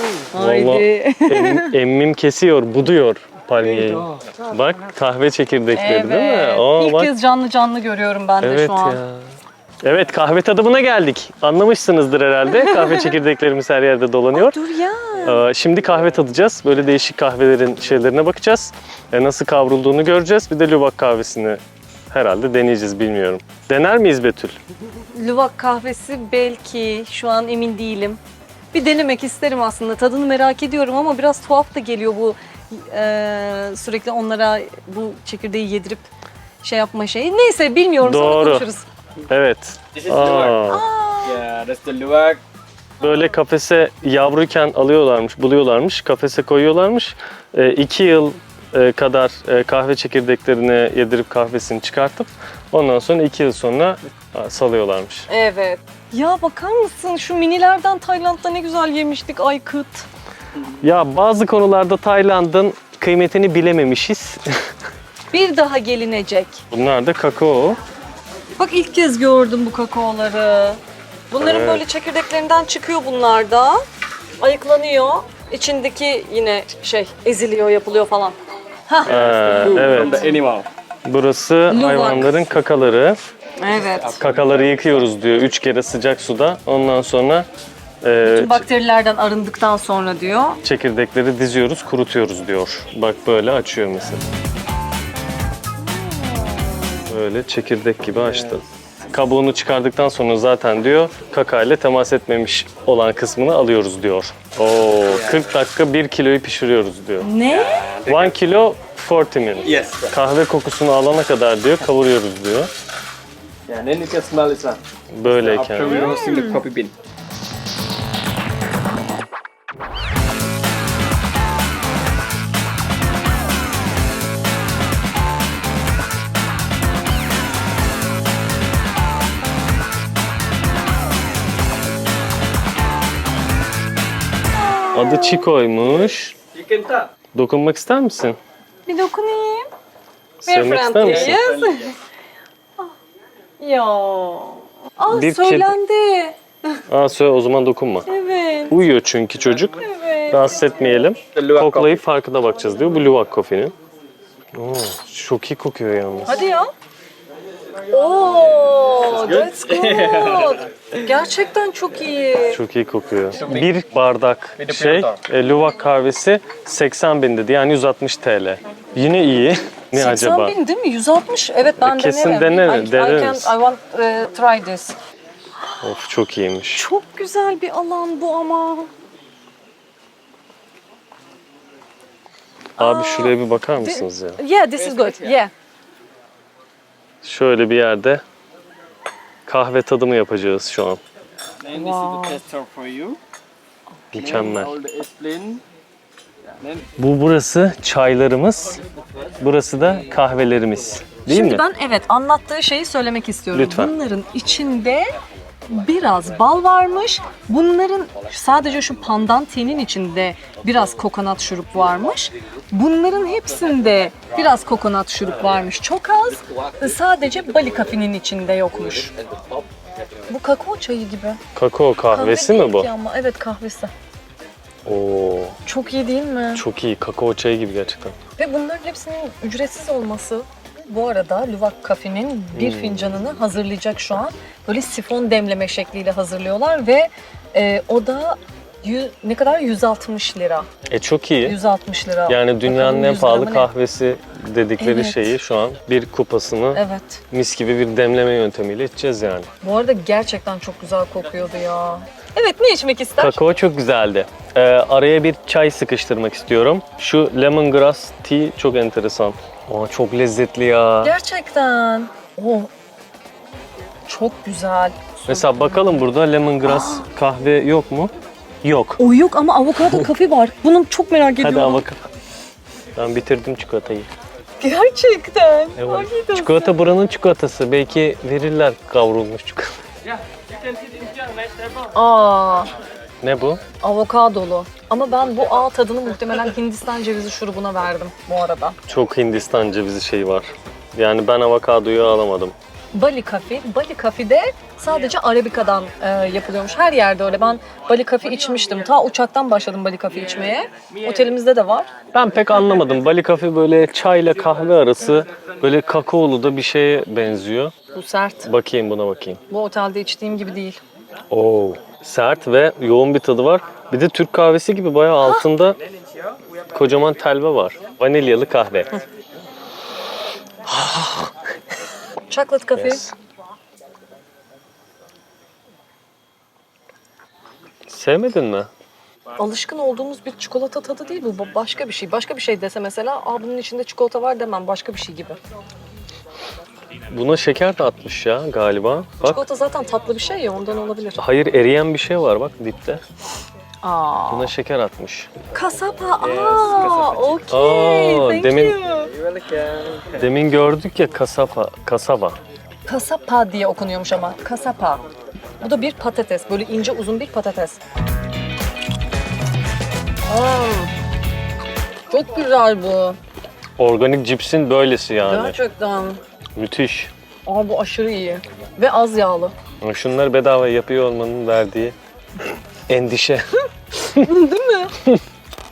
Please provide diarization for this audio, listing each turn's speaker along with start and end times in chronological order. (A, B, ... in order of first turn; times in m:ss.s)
0:00.2-0:01.7 A
0:00.3-0:07.1 B
0:05.7-0:09.0 A
0:08.4-0:09.3 B
0:09.8-0:14.6 B
0:12.6-0:13.1 A
0:14.3-0:15.4 A
0:15.2-0:24.6 B
0:25.1-0:28.2 A
0:28.7-0:36.1 A
0:36.6-0:38.8 A
0:38.0-0:38.7 B
0:39.3-0:40.9 B
0:40.0-0:40.6 C
0:40.7-0:41.4 A
0:41.3-0:42.4 C
0:43.0-0:55.3 B
0:55.3-1:00.1 A
1:00.8-1:04.7 B
1:05.3-1:06.6 A
1:06.7-1:07.8 B
1:08.6-1:13.8 A
1:11.4-1:11.8 B
1:14.4-1:18.4 A
1:18.9-1:19.2 A
1:19.0-1:20.2 B
1:19.1-1:20.7 C
1:19.8-1:20.3 A
1:21.1-1:23.2 B
1:21.7-1:22.4 A
1:23.6-1:24.2 A
1:24.2-1:27.5 B
1:28.0-1:28.6 B
1:28.2-1:30.6 A
1:30.6-1:34.2 B
1:37.1-1:47.4 B
1:47.2-1:47.9 A
1:47.6-1:48.3 C
1:48.0-1:52.7 B
1:49.7-1:50.1 C
1:53.7-1:54.8 C
1:55.1-1:56.2 B
1:55.4-1:56.9 C
1:55.9-1:56.6 A
2:14.6-2:15.5 A
2:14.9-2:16.4 B
2:16.7-2:17.0 C
2:17.3-2:18.4 B
2:18.9-2:19.7 A
2:20.4-2:21.4 B
2:20.5-2:22.0 A
2:21.0-2:21.9 C
2:23.6-2:26.4 A
2:25.1-2:25.7 B
2:26.9-2:28.1 B
2:28.1-2:28.8 A
2:28.7-2:33.7 B
2:29.8-2:30.6 A
2:31.4-2:31.9 C
2:34.6-2:36.4 B
2:36.3-2:36.7 A
2:37.9-2:42.6 A
2:39.3-2:40.5 C
2:42.5-2:50.6 B
2:44.6-2:45.2 C
2:49.9-2:55.0 A
2:51.8-2:53.5 B
2:55.8-2:56.8 B
2:56.7-2:58.9 A
3:02.8-3:05.5 A
3:02.8-3:04.4 B
3:07.2-3:08.2 B
3:09.5-3:11.0 B
3:11.7-3:13.2 C
3:11.7-3:12.4 A
3:14.1-3:14.8 B
3:14.2-3:15.6 C
3:17.0-3:18.8 B
3:19.4-3:21.6 B
3:21.3-3:25.2 A
3:23.5-3:23.9 B
3:25.7-3:39.1 A
3:40.3-3:41.4 A
3:41.6-3:42.9 B
3:42.1-3:43.9 A
3:44.8-3:45.6 B
3:45.6-3:46.6 A
3:46.6-3:48.2 B
3:48.4-4:00.7 A
3:52.5-3:53.2 B
4:00.9-4:01.6 B
4:01.4-4:03.7 A
4:02.3-4:09.5 B
4:04.8-4:05.3 A
4:06.7-4:07.2 A
4:09.6-4:13.5 A
4:13.2-4:21.1 B
4:21.0-4:22.7 A
4:24.1-4:26.0 A
4:25.3-4:28.1 B
4:26.6-4:27.0 A
4:28.6-4:29.0 B
4:29.0-4:31.8 A
4:31.4-4:32.0 B
4:33.0-4:34.1 B
4:34.6-4:36.7 A
4:35.8-4:39.7 B
4:41.9-4:42.7 A
4:43.2-4:43.6 B
4:43.8-4:48.8 A
4:48.9-4:52.6 B
4:52.9-5:01.9 A
5:02.1-5:07.7 B
5:07.9-5:08.5 A
5:08.4-5:09.4 B
5:09.5-5:10.8 A
5:11.3-5:15.8 B
5:16.7-5:18.9 B
5:20.7-5:21.3 B
5:22.3-5:23.0 A
5:22.8-5:23.1 B
5:27.9-5:28.7 B
5:29.4-5:35.4 A
5:37.1-5:39.4 B
5:39.2-5:41.2 A
5:41.2-5:43.0 B
5:43.8-5:44.5 A
5:44.3-5:45.3 B
5:45.5-5:49.1 A
5:46.4-5:47.3 C
5:47.5-5:48.8 B
5:49.4-5:50.1 C
5:50.1-5:52.4 B
5:52.9-5:55.0 A
5:55.6-5:57.8 A
6:00.3-6:00.9 A
6:02.1-6:03.2 A
6:03.8-6:05.6 B
6:05.2-6:06.2 A
6:06.6-6:07.1 B
6:07.5-6:09.5 A
6:09.8-6:14.3 B
6:14.2-6:15.0 A